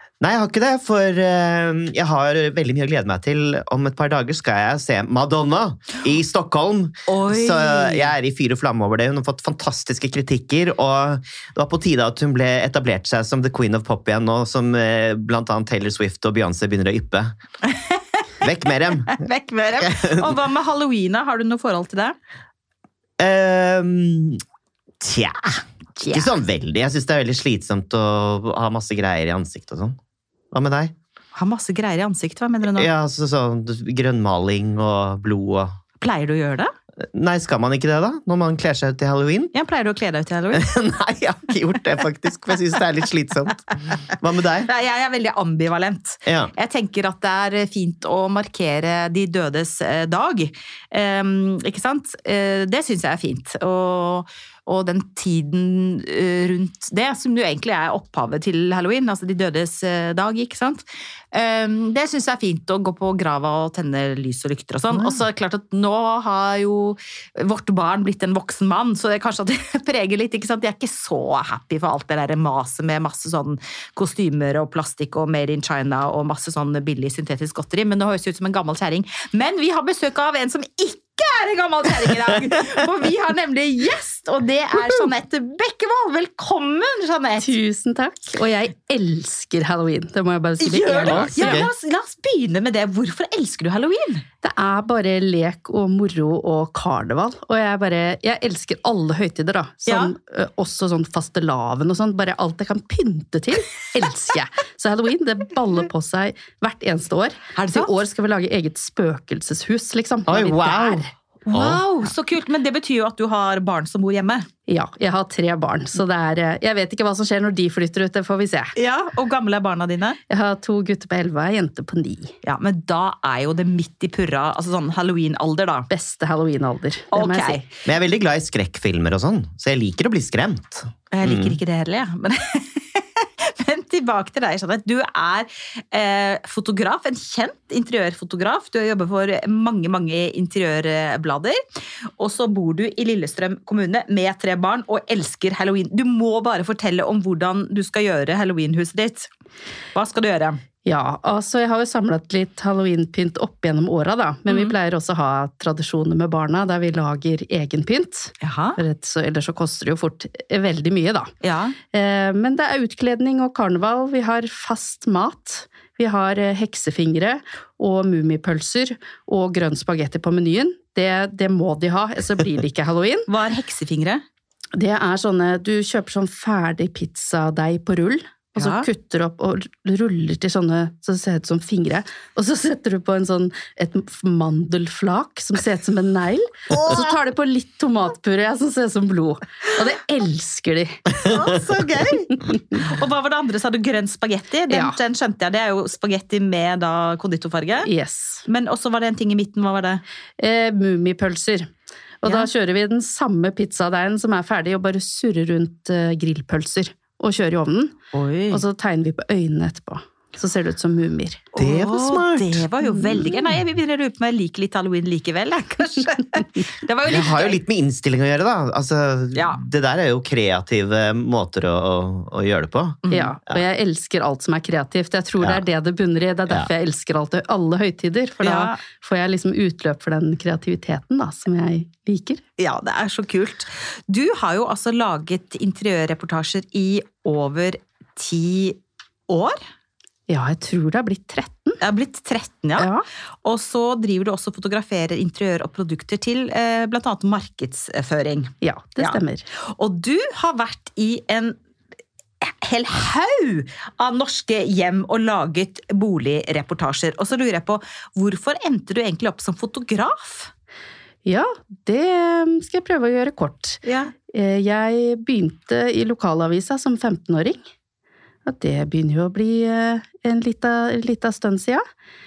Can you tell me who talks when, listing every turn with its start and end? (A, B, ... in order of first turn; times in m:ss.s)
0:00.2-0:17.4 A
0:07.1-0:08.1 B
0:17.7-0:18.2 B
0:18.4-0:19.2 A
0:19.1-0:22.2 B
0:19.8-0:20.4 A
0:23.2-0:24.4 A
0:25.0-0:30.0 A
0:26.0-0:26.4 B
0:30.5-0:30.9 A
0:31.4-0:32.9 B
0:32.6-0:35.8 A
0:36.0-0:36.7 B
0:37.0-0:39.5 A
0:39.5-0:40.7 B
0:40.5-0:44.7 A
0:44.6-1:27.6 B
0:46.3-0:46.5 A
1:27.4-1:31.6 C
1:30.6-1:34.2 B
1:31.1-1:31.7 A
1:34.4-1:51.1 C
1:39.9-1:40.1 B
1:47.6-1:47.9 B
1:50.3-1:51.8 A
1:51.5-1:54.5 B
1:54.7-1:58.8 C
1:58.8-2:00.2 B
2:00.3-2:02.3 C
2:02.4-2:05.9 B
2:05.9-2:07.6 C
2:07.1-2:07.7 B
2:07.8-2:11.6 A
2:11.1-2:21.6 B
2:22.2-2:29.3 B
2:29.9-2:30.6 B
2:30.8-2:41.3 C
2:34.5-2:34.7 B
2:38.4-2:38.8 B
2:41.4-2:41.8 B
2:41.9-2:53.3 C
2:53.3-2:54.2 B
2:54.8-3:11.0 C
2:58.6-2:58.9 B
3:11.2-3:17.9 B
3:14.7-3:15.0 C
3:17.8-3:18.4 C
3:18.5-3:20.0 B
3:20.4-3:28.0 C
3:28.1-3:28.6 B
3:28.5-3:31.4 C
3:31.5-3:37.6 B
3:31.6-3:32.7 A
3:32.8-3:33.5 C
3:37.1-3:43.6 A
3:39.4-3:39.6 B
3:43.0-3:43.3 B
3:43.1-3:52.4 C
3:48.4-3:48.8 B
3:52.6-3:58.8 B
3:59.3-3:59.6 B
4:00.3-4:01.8 C
4:01.8-4:02.9 B
4:02.8-4:03.0 C
4:03.4-4:11.6 B
4:08.6-4:09.4 C
4:12.4-4:20.5 B
4:21.3-4:27.6 C
4:23.8-4:24.1 B
4:28.5-4:31.8 C